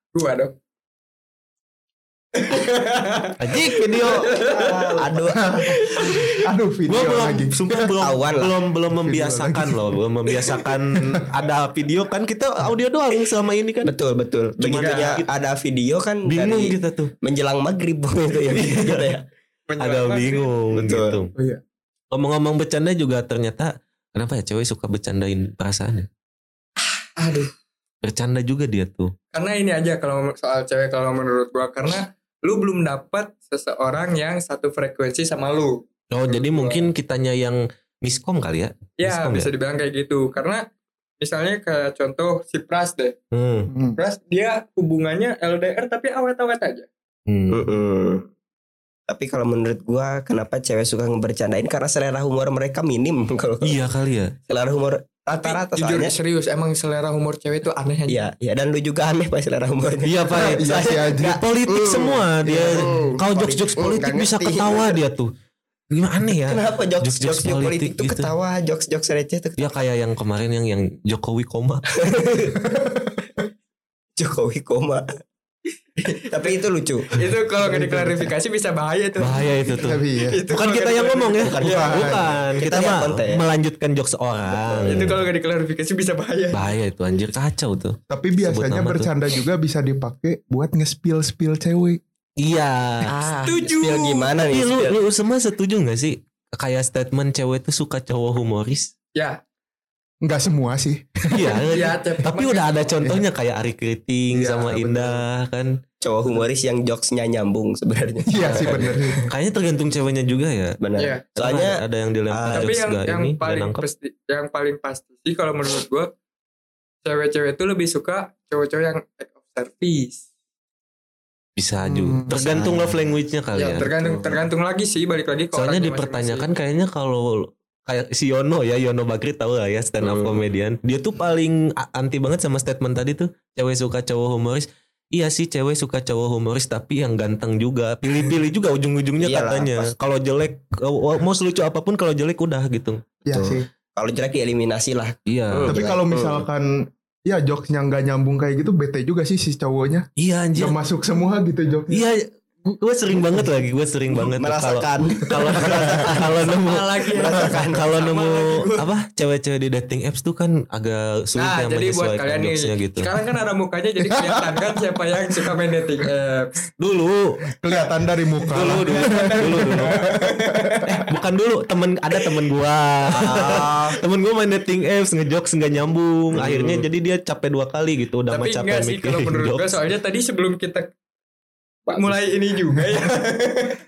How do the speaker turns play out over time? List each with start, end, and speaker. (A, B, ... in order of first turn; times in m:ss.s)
0:00.1-0:00.5 A
0:02.4-0:05.1 A
0:03.4-0:04.3 B
0:04.4-0:06.2 C
0:05.4-0:07.8 D
0:06.9-0:13.9 B
0:08.0-0:08.6 C
0:08.9-0:09.8 D
0:13.8-0:19.2 C
0:14.6-0:15.2 B
0:14.7-0:15.2 A
0:16.2-0:17.1 B
0:18.5-0:19.1 B
0:19.7-0:20.5 A
0:19.8-0:21.3 B
0:20.7-0:21.2 C
0:22.1-0:26.1 B
0:27.2-0:27.5 A
0:28.0-0:29.1 B
0:29.3-0:36.9 A
0:36.1-0:39.5 B
0:39.0-0:40.7 A
0:41.2-0:43.2 A
0:43.3-0:43.7 B
0:43.7-0:44.0 D
0:44.0-0:46.9 A
0:47.3-0:47.6 B
0:47.5-0:48.2 C
0:49.1-0:53.8 C
0:53.6-0:54.3 B
0:54.5-0:56.1 C
0:55.4-0:58.2 A
0:58.1-1:05.0 C
1:00.0-1:00.6 B
1:00.4-1:01.4 D
1:01.3-1:05.3 B
1:02.4-1:02.9 D
1:05.9-1:08.3 B
1:06.5-1:09.7 C
1:09.6-1:12.1 B
1:12.0-1:12.6 C
1:12.6-1:13.2 D
1:14.2-1:15.0 C
1:16.1-1:17.1 C
1:17.2-1:22.1 A
1:17.6-1:18.3 D
1:19.2-1:25.2 B
1:19.8-1:20.4 D
1:21.5-1:22.0 C
1:21.6-1:22.3 D
1:22.6-1:23.4 C
1:24.5-1:25.1 C
1:24.8-1:26.8 A
1:26.5-1:29.1 B
1:28.1-1:32.0 D
1:32.4-1:33.1 B
1:33.0-1:35.0 C
1:33.5-1:34.3 A
1:34.4-1:38.9 B
1:39.2-1:39.4 A
1:40.2-1:41.6 D
1:41.3-1:45.7 B
1:41.7-1:43.0 A
1:44.3-1:45.2 D
1:46.0-1:49.3 C
1:48.3-1:49.2 D
1:48.5-1:50.8 B
1:50.8-1:52.7 C
1:51.0-1:51.2 A
1:51.4-1:53.8 B
1:52.6-1:56.1 A
1:57.0-2:00.2 A
2:01.6-2:04.2 B
2:01.9-2:02.3 D
2:02.3-2:03.0 C
2:03.5-2:06.5 A
2:05.5-2:23.0 B
2:10.0-2:10.4 C
2:19.2-2:19.9 C
2:23.2-2:23.7 D
2:23.3-2:26.4 C
2:25.3-2:25.8 B
2:25.7-2:32.1 D
2:30.2-2:30.8 B
2:31.9-2:37.1 B
2:34.1-2:36.5 C
2:35.4-2:35.8 D
2:36.5-2:38.7 A
2:37.1-2:37.9 C
2:37.6-2:43.1 B
2:41.4-2:46.6 A
2:46.8-2:47.4 B
2:47.6-2:51.0 D
2:48.5-2:50.0 B
2:48.7-2:49.4 A
2:50.5-2:51.0 A
2:51.1-2:59.8 B
2:53.2-2:53.9 D
2:56.4-2:56.8 D
2:58.3-3:00.9 A
3:01.9-3:03.8 A
3:02.7-3:03.1 D